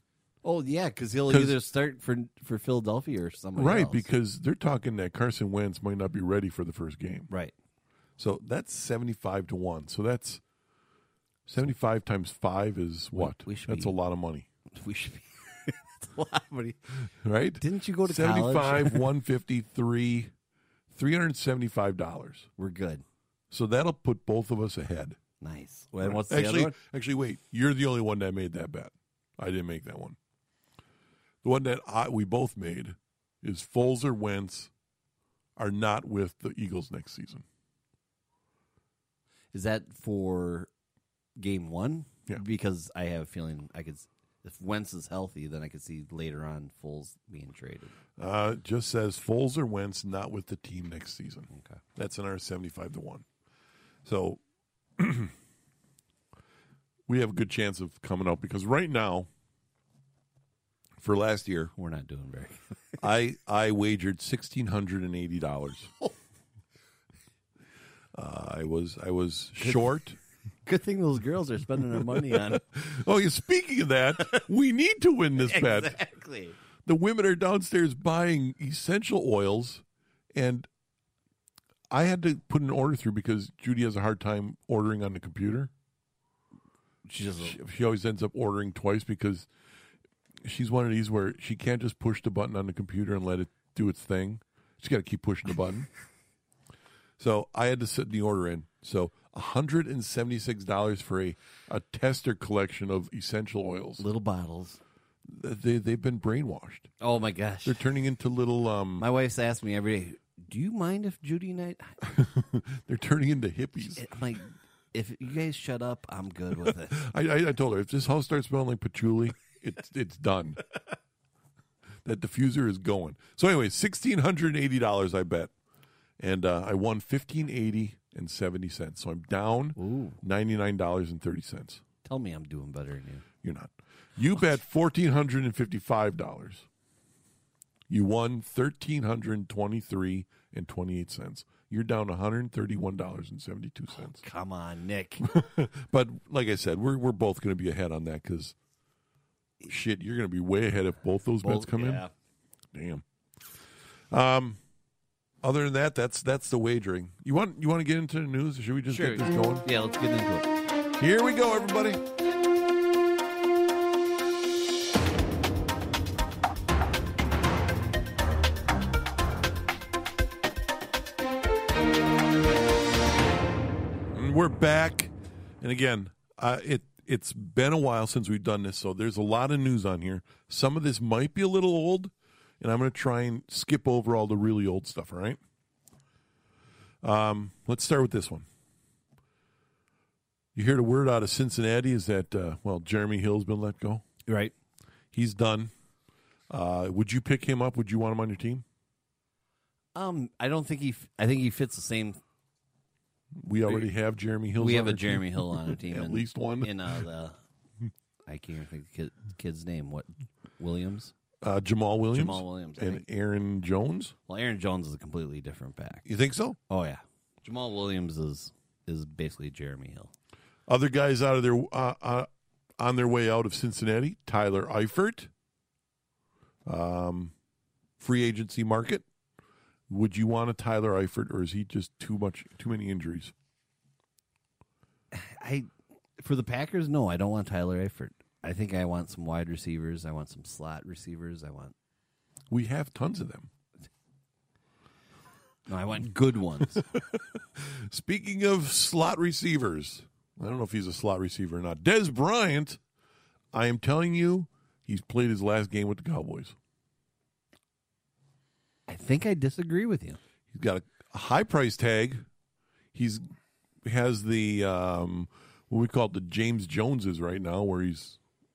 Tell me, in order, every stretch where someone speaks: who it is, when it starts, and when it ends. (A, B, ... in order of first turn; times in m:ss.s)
0:00.4-0:04.1 A
0:01.3-0:01.6 B
0:03.6-0:07.3 B
0:08.2-0:10.4 B
0:11.5-0:14.5 B
0:13.2-0:14.0 A
0:14.8-0:16.8 A
0:17.2-0:20.3 B
0:17.6-0:19.1 A
0:20.9-0:22.5 B
0:22.6-0:23.0 A
0:23.5-0:25.2 B
0:25.4-0:26.8 A
0:26.0-0:30.2 B
0:31.4-0:34.7 B
0:35.6-0:37.4 B
0:39.5-0:40.7 A
0:41.4-0:48.0 A
0:48.2-0:53.2 B
0:51.5-0:51.8 A
0:54.0-0:54.4 B
0:55.0-0:55.3 B
0:57.1-0:59.3 B
1:01.0-1:01.7 B
1:01.8-1:03.0 A
1:03.0-1:05.9 B
1:08.2-1:10.2 B
1:09.6-1:09.9 A
1:10.6-1:12.6 A
1:12.3-1:16.0 B
1:15.4-1:16.6 A
1:16.8-1:19.8 B
1:20.3-1:20.7 B
1:21.9-1:25.7 B
1:27.1-1:27.6 A
1:27.4-1:29.5 B
1:30.4-1:35.9 B
1:37.2-1:44.0 B
1:44.0-1:44.8 A
1:45.2-1:46.9 B
1:47.0-1:47.8 A
1:47.6-1:49.0 B
1:49.0-1:52.0 A
1:52.0-1:54.1 B
1:54.0-1:57.0 A
1:56.9-2:00.6 B
2:02.0-2:05.5 B
2:06.2-2:11.8 B
2:09.8-2:10.2 A
2:12.0-2:13.2 A
2:13.4-2:16.7 B
2:17.9-2:24.2 B
2:24.0-2:25.2 A
2:25.2-2:28.6 B
2:29.7-2:32.0 B
2:31.4-2:32.1 A
2:32.7-2:33.0 B
2:34.1-2:34.6 B
2:35.4-2:39.7 B
2:38.9-2:40.5 A
2:41.0-2:42.0 B
2:54.1-3:05.4 B
3:07.0-3:08.5 B
3:10.6-3:14.0 B
3:14.3-3:14.5 A
3:15.1-3:15.7 B
3:16.5-3:18.6 B
3:20.0-3:22.2 A
3:23.4-3:26.8 B
3:24.6-3:27.4 A
3:28.3-3:31.1 A
3:31.4-3:34.1 B
3:32.1-3:33.0 A
3:34.3-3:36.0 A
3:36.0-3:36.6 B
3:36.7-3:40.1 A
3:40.7-3:45.3 B
3:46.7-3:47.3 B
3:48.0-3:49.0 B
3:49.9-3:53.3 B
3:55.1-4:01.8 A
4:02.5-4:03.5 B
4:05.7-4:06.8 A
4:06.8-4:12.8 B
4:13.5-4:16.6 B
4:18.9-4:20.2 A
4:20.5-4:22.2 B
4:22.9-4:23.2 B
4:23.8-4:28.2 B